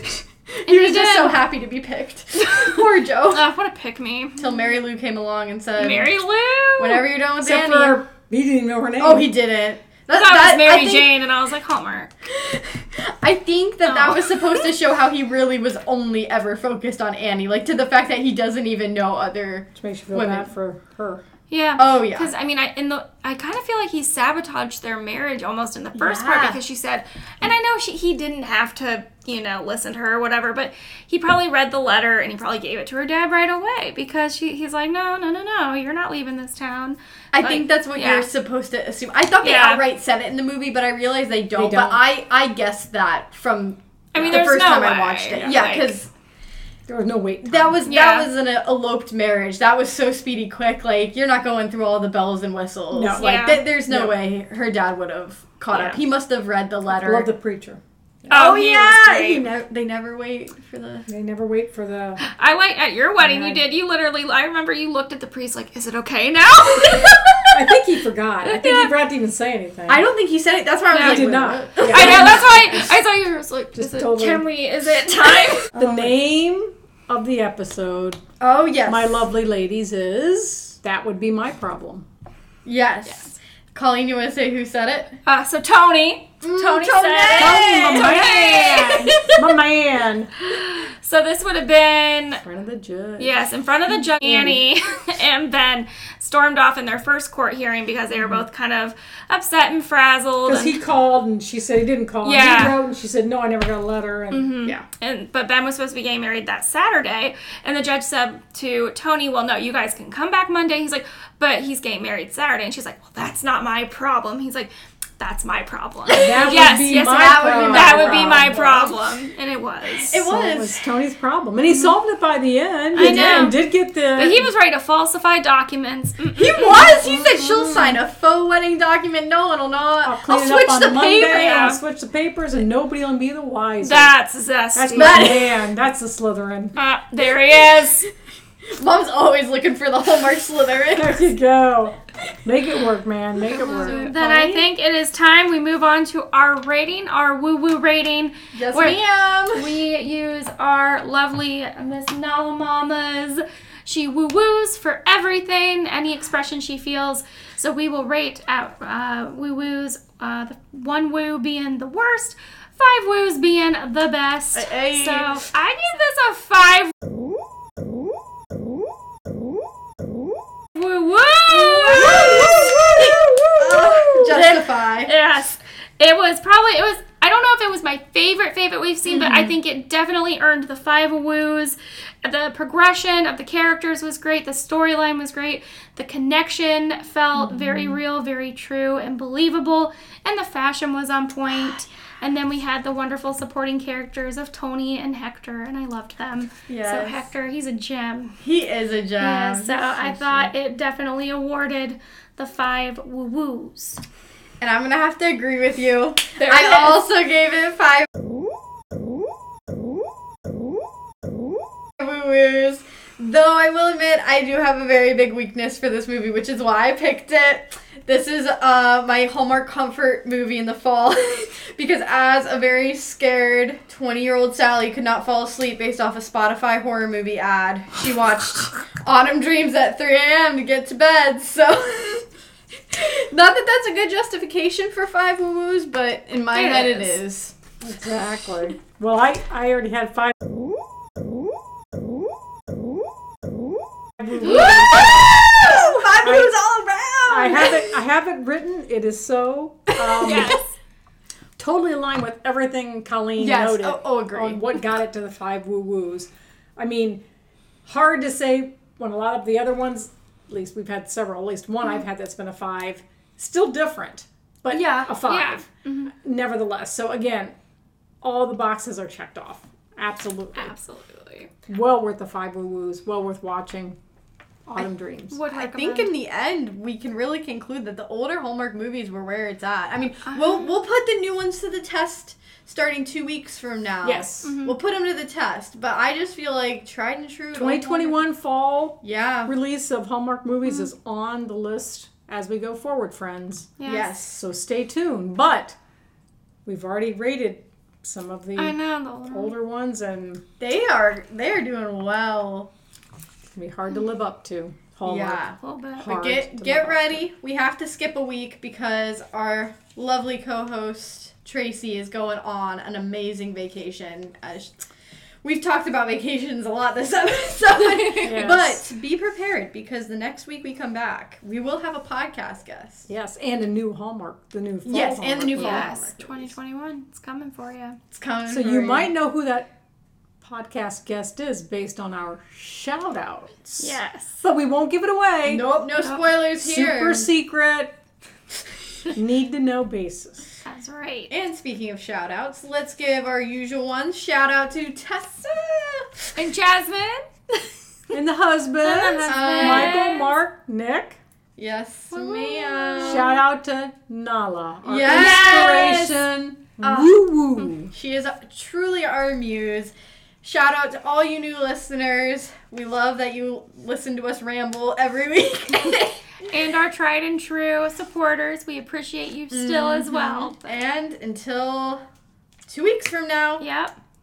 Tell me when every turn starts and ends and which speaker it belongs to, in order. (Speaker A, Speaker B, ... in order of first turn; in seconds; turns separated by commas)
Speaker A: 0.5-3.5, Speaker B: 0.7-1.4, Speaker B: 2.5-4.7, Speaker A: 4.4-6.2, Speaker B: 5.8-7.1, Speaker A: 6.8-8.0, Speaker C: 7.4-9.3, Speaker A: 9.0-11.1, Speaker B: 10.1-12.1, Speaker A: 12.3-20.5, Speaker B: 13.9-14.7, Speaker C: 19.8-21.2, Speaker B: 21.5-38.3, Speaker A: 21.8-22.3, Speaker A: 25.9-26.6, Speaker A: 37.3-46.1, Speaker B: 39.4-39.8, Speaker C: 41.6-42.0, Speaker B: 44.1-45.9, Speaker C: 46.9-47.8, Speaker A: 47.5-57.3, Speaker B: 47.9-48.3, Speaker C: 52.9-54.2, Speaker B: 53.1-53.6, Speaker B: 55.7-56.0, Speaker C: 56.9-58.3, Speaker B: 58.3-59.5, Speaker A: 58.3-61.1, Speaker C: 61.1-62.2, Speaker B: 62.2-67.8, Speaker C: 63.2-63.7, Speaker C: 67.5-70.1, Speaker B: 68.4-68.9, Speaker A: 69.9-72.6, Speaker B: 70.9-75.8, Speaker C: 71.0-72.9, Speaker C: 73.8-74.5, Speaker C: 75.7-78.2, Speaker A: 75.7-76.1, Speaker A: 78.4-79.3, Speaker C: 78.9-82.1, Speaker A: 82.7-85.2, Speaker B: 83.1-83.4, Speaker B: 85.3-89.5, Speaker A: 86.4-88.3, Speaker C: 87.3-90.3, Speaker B: 90.4-92.4, Speaker C: 92.4-94.6, Speaker B: 93.2-100.8, Speaker C: 98.2-98.5, Speaker C: 100.5-104.8, Speaker B: 102.2-102.8, Speaker B: 104.3-120.2, Speaker C: 116.2-119.0, Speaker A: 116.2-118.8, Speaker A: 120.1-120.8, Speaker C: 120.1-124.5, Speaker B: 122.9-123.6, Speaker A: 123.0-123.5, Speaker B: 124.2-127.0, Speaker A: 126.4-131.7, Speaker C: 126.8-128.0, Speaker C: 130.0-134.1, Speaker B: 131.3-131.8, Speaker B: 133.8-135.3, Speaker C: 134.8-136.8, Speaker A: 135.0-135.5, Speaker B: 136.8-138.1, Speaker A: 138.8-141.2, Speaker C: 140.9-144.1, Speaker A: 143.6-144.7, Speaker B: 143.6-166.9, Speaker A: 148.5-149.7, Speaker A: 164.6-165.4, Speaker B: 170.8-198.4, Speaker A: 171.8-175.1, Speaker C: 171.9-172.8, Speaker A: 179.2-179.5, Speaker C: 187.5-187.9, Speaker A: 196.7-197.3, Speaker A: 198.4-200.5, Speaker B: 199.2-204.0, Speaker A: 204.6-208.1, Speaker A: 212.0-232.3, Speaker A: 232.9-237.5, Speaker B: 236.5-237.2, Speaker C: 237.8-240.3, Speaker A: 244.3-248.0, Speaker B: 244.4-245.3, Speaker C: 246.2-246.6, Speaker C: 247.3-250.6, Speaker B: 250.2-250.6, Speaker C: 251.6-257.2, Speaker A: 253.4-254.9, Speaker C: 257.9-267.6, Speaker B: 264.7-266.1, Speaker C: 268.2-270.7, Speaker B: 270.6-271.5, Speaker C: 271.7-274.0, Speaker C: 274.7-275.4, Speaker B: 275.3-276.1, Speaker A: 275.5-288.2, Speaker B: 280.3-280.7, Speaker C: 284.0-284.5, Speaker B: 284.4-284.8, Speaker C: 287.5-295.8, Speaker A: 289.0-289.5, Speaker B: 293.8-294.1, Speaker A: 293.8-294.4, Speaker C: 296.6-300.4, Speaker B: 298.6-299.5, Speaker A: 300.6-302.7, Speaker C: 303.5-305.4, Speaker A: 305.1-314.9, Speaker B: 305.6-306.1, Speaker C: 306.0-307.2, Speaker A: 315.4-323.1, Speaker B: 317.9-318.5, Speaker C: 318.2-318.9, Speaker C: 323.1-325.9, Speaker A: 324.9-326.6, Speaker B: 325.5-328.0, Speaker A: 328.1-329.1, Speaker C: 328.5-329.7, Speaker C: 330.4-335.8, Speaker B: 333.8-334.4, Speaker A: 335.4-337.3, Speaker C: 336.6-337.9, Speaker C: 339.1-340.5, Speaker B: 340.6-341.3, Speaker A: 341.3-346.4, Speaker B: 346.4-348.2, Speaker C: 348.1-351.2, Speaker B: 348.8-350.3, Speaker A: 349.3-350.1, Speaker A: 351.6-353.3, Speaker B: 352.1-353.4, Speaker C: 353.0-357.9, Speaker A: 354.9-355.9, Speaker B: 355.0-356.2, Speaker A: 356.8-366.2, Speaker B: 366.4-370.7, Speaker A: 369.5-372.0, Speaker A: 372.7-373.6, Speaker B: 373.6-373.9